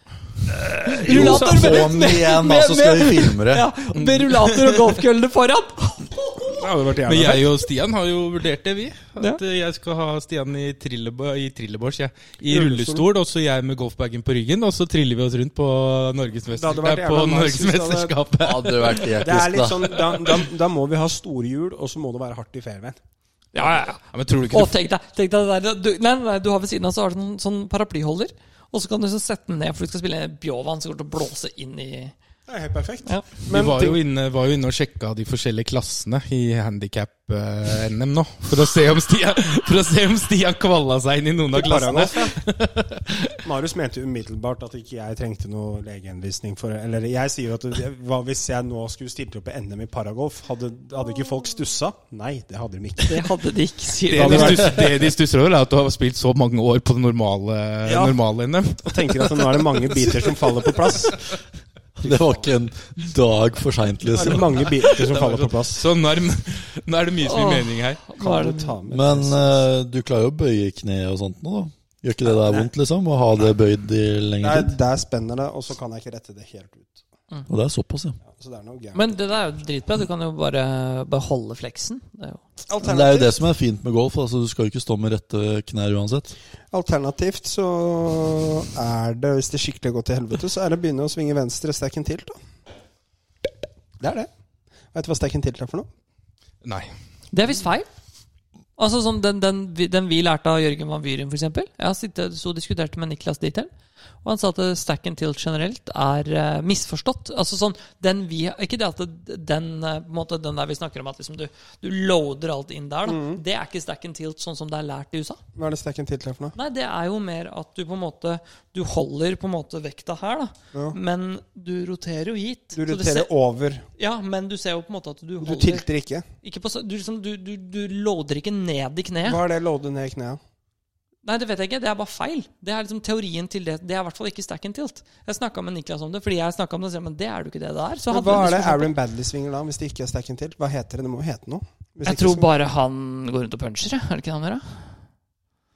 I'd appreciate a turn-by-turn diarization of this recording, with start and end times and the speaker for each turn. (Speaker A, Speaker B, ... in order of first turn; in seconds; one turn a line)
Speaker A: 0.5-6.4
Speaker B: 0.9-3.7
Speaker C: 1.1-1.8
Speaker D: 4.0-4.8
Speaker C: 6.5-7.5
Speaker D: 7.0-19.2
Speaker C: 12.5-13.1
Speaker C: 16.6-18.1
Speaker B: 18.4-20.0
Speaker C: 19.2-23.0
Speaker A: 23.5-32.1
Speaker D: 24.1-24.7
Speaker C: 32.5-34.0
Speaker D: 33.5-43.3
Speaker C: 41.5-42.4
Speaker C: 43.4-53.3
Speaker A: 53.0-54.9
Speaker D: 54.1-60.8
Speaker C: 54.1-54.9
Speaker C: 57.9-58.2
Speaker C: 58.8-61.3
Speaker B: 62.0-64.7
Speaker C: 62.0-62.4
Speaker C: 64.1-65.9
Speaker D: 64.8-68.0
Speaker A: 67.2-68.8
Speaker C: 68.2-69.6
Speaker B: 68.9-74.8
Speaker C: 72.3-72.7
Speaker C: 74.4-77.0
Speaker B: 77.5-78.2
Speaker C: 78.2-79.0
Speaker A: 78.9-82.4
Speaker C: 82.7-83.4
Speaker B: 82.8-86.3
Speaker C: 86.7-92.4
Speaker C: 94.0-94.3
Speaker C: 94.9-95.9
Speaker D: 96.6-96.9
Speaker A: 97.3-97.9
Speaker A: 98.8-103.7
Speaker A: 104.2-115.4
Speaker C: 113.1-113.4
Speaker C: 115.6-116.6
Speaker A: 116.6-123.3
Speaker C: 122.8-123.9
Speaker A: 124.0-125.9
Speaker C: 125.4-126.2
Speaker A: 126.4-129.4
Speaker C: 129.2-130.4
Speaker A: 131.2-138.9
Speaker C: 138.1-142.5
Speaker A: 142.1-144.9